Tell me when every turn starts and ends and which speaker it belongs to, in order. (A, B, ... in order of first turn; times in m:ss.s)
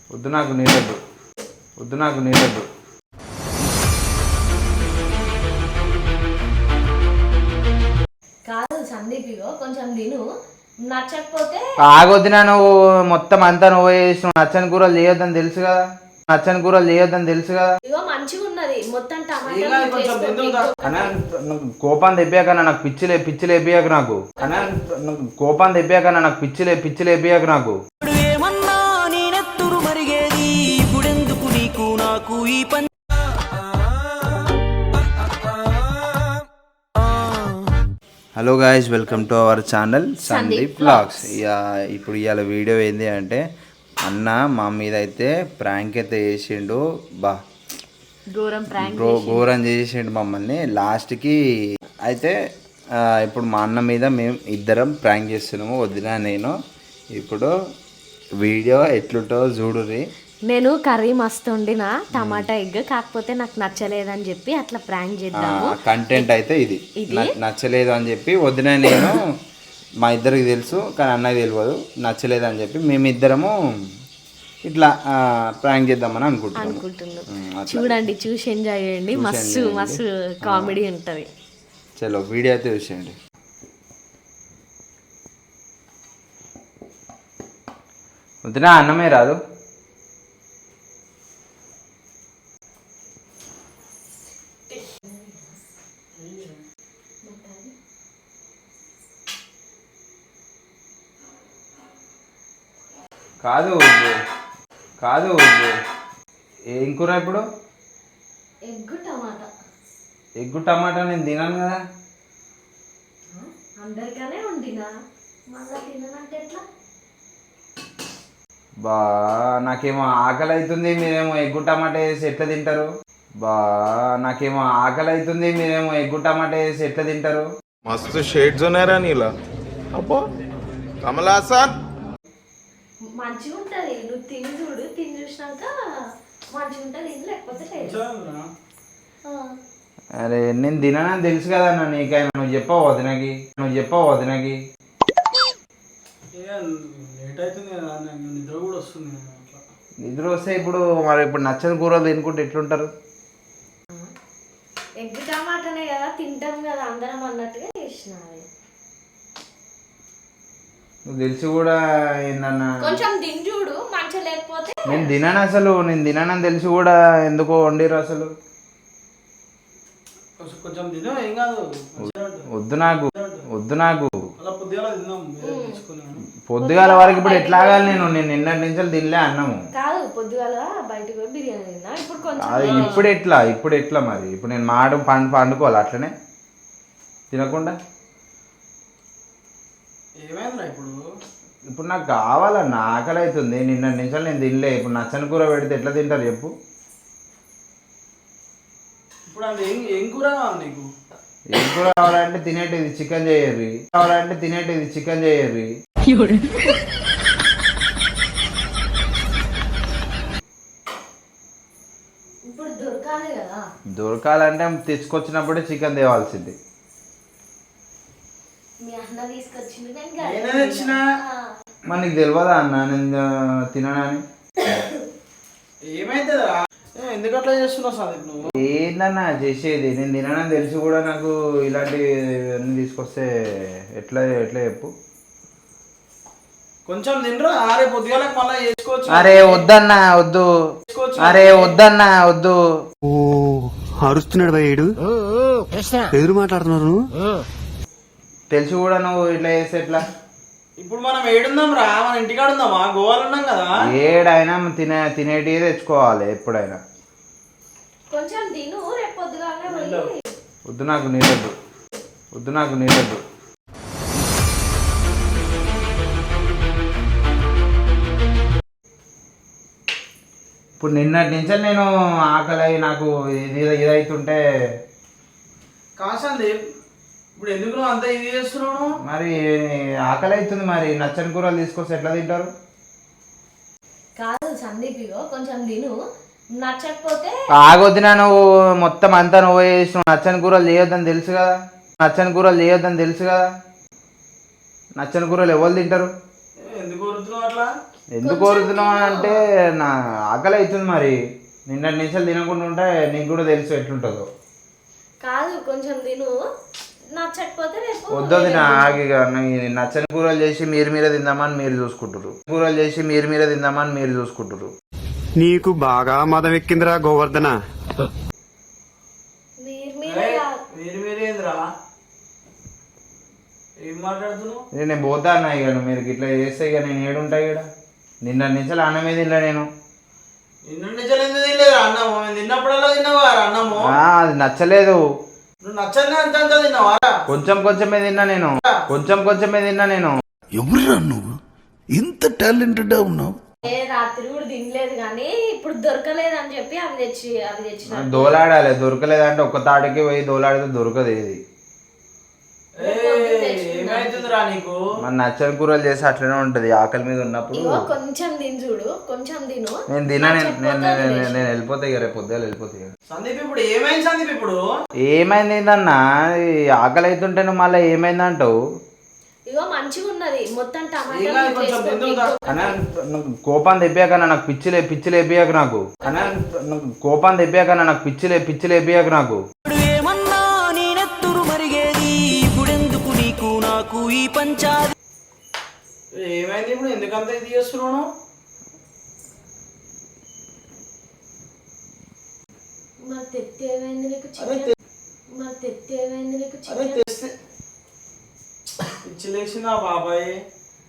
0:00.1-0:01.0 A
0:01.8-0:02.6 A
0:08.5-0:10.2 B
0:10.9-0:11.6 B
0:11.8-0:15.8 A
0:16.3-0:17.7 A
0:17.8-0:21.1 B
0:19.4-0:20.7 C
0:20.8-0:27.8 A
0:24.4-0:24.7 B
0:28.0-0:32.9 D
0:38.4-0:43.4 A
0:40.2-0:41.4 B
0:44.0-0:47.4 A
0:48.3-0:49.4 B
0:48.7-0:51.4 A
0:52.0-0:52.3 A
0:53.0-0:56.5 A
0:57.2-0:57.5 A
0:58.4-1:00.0 A
1:00.5-1:05.8 B
1:02.1-1:02.5 A
1:05.4-1:09.2 A
1:07.0-1:07.3 B
1:10.0-1:13.5 A
1:14.6-1:18.0 A
1:16.6-1:21.3 B
1:19.1-1:20.8 A
1:22.0-1:23.1 A
1:28.4-1:29.4 A
1:34.7-1:35.6 B
1:36.2-1:36.5 B
1:37.2-1:37.7 B
1:43.4-1:44.1 A
1:45.0-1:45.7 A
1:46.7-1:47.4 A
1:48.6-1:49.5 B
1:50.4-1:51.8 A
1:53.3-1:54.9 B
1:55.5-1:56.6 B
1:58.8-2:02.9 A
2:03.4-2:07.5 A
2:07.8-2:09.3 E
2:09.9-2:10.3 E
2:11.0-2:11.8 E
2:13.1-2:15.7 B
2:16.5-2:18.0 B
2:17.8-2:18.4 C
2:19.2-2:19.6 B
2:20.2-2:24.6 A
2:26.3-2:29.6 C
2:30.0-2:32.9 A
2:35.0-2:38.5 B
2:41.1-2:43.0 A
2:42.8-2:45.1 B
2:44.9-2:48.3 A
2:50.4-2:52.4 C
2:52.0-2:54.1 A
2:53.1-2:53.4 C
2:54.4-2:56.2 C
2:55.4-2:55.8 B
2:56.4-2:59.6 A
2:56.6-2:58.1 B
2:59.8-3:03.1 B
3:02.4-3:06.1 A
3:02.6-3:03.0 C
3:07.3-3:07.8 A
3:10.2-3:11.0 C
3:11.7-3:16.5 A
3:19.3-3:20.9 C
3:21.5-3:25.7 A
3:26.0-3:26.8 B
3:32.5-3:33.6 B
3:33.9-3:36.6 A
3:38.8-3:41.4 B
3:40.2-3:41.0 C
3:41.9-3:44.2 A
3:44.6-3:44.9 B
3:45.8-3:48.5 C
3:48.5-3:54.9 A
3:56.8-3:59.7 C
3:59.1-4:00.5 A
4:00.9-4:01.8 C
4:01.2-4:02.6 A
4:03.1-4:05.0 F
4:06.1-4:07.1 F
4:08.5-4:10.0 A
4:10.8-4:13.7 C
4:13.8-4:16.8 A
4:18.1-4:20.1 B
4:19.7-4:20.0 C
4:20.7-4:21.5 A
4:22.3-4:23.2 A
4:30.8-4:34.4 A
4:36.0-4:36.6 C
4:37.4-4:38.9 C
4:39.0-4:39.4 A
4:40.0-4:42.5 A
4:44.2-4:45.9 B
4:46.6-4:47.3 B
4:47.6-4:53.5 A
4:55.0-4:56.1 A
4:56.6-4:57.7 C
4:58.1-5:01.2 A
4:58.2-4:59.4 B
5:01.7-5:04.2 A
5:05.2-5:06.3 B
5:07.1-5:09.0 B
5:08.1-5:14.7 A
5:15.3-5:17.6 F
5:19.6-5:20.6 B
5:20.0-5:21.6 C
5:23.8-5:24.6 C
5:24.7-5:27.6 A
5:28.2-5:29.7 A
5:30.7-5:33.9 C
5:33.8-5:35.0 A
5:35.6-5:37.2 C
5:37.3-5:40.2 A
5:40.6-5:41.4 G
5:41.9-5:43.4 G
5:43.6-5:48.4 B
5:47.9-5:51.4 A
5:52.8-5:54.8 C
5:52.8-5:54.3 B
5:55.0-5:57.8 A
5:57.5-6:01.4 B
5:59.9-6:02.9 A
6:03.1-6:04.6 C
6:05.0-6:08.5 A
6:09.5-6:12.7 B
6:11.1-6:12.4 C
6:12.5-6:19.4 A
6:16.0-6:16.3 B
6:19.6-6:24.9 D
6:26.1-6:28.1 C
6:33.0-6:34.7 B
6:34.4-6:34.7 C
6:35.3-6:37.0 B
6:36.7-6:37.3 C
6:39.0-6:40.4 C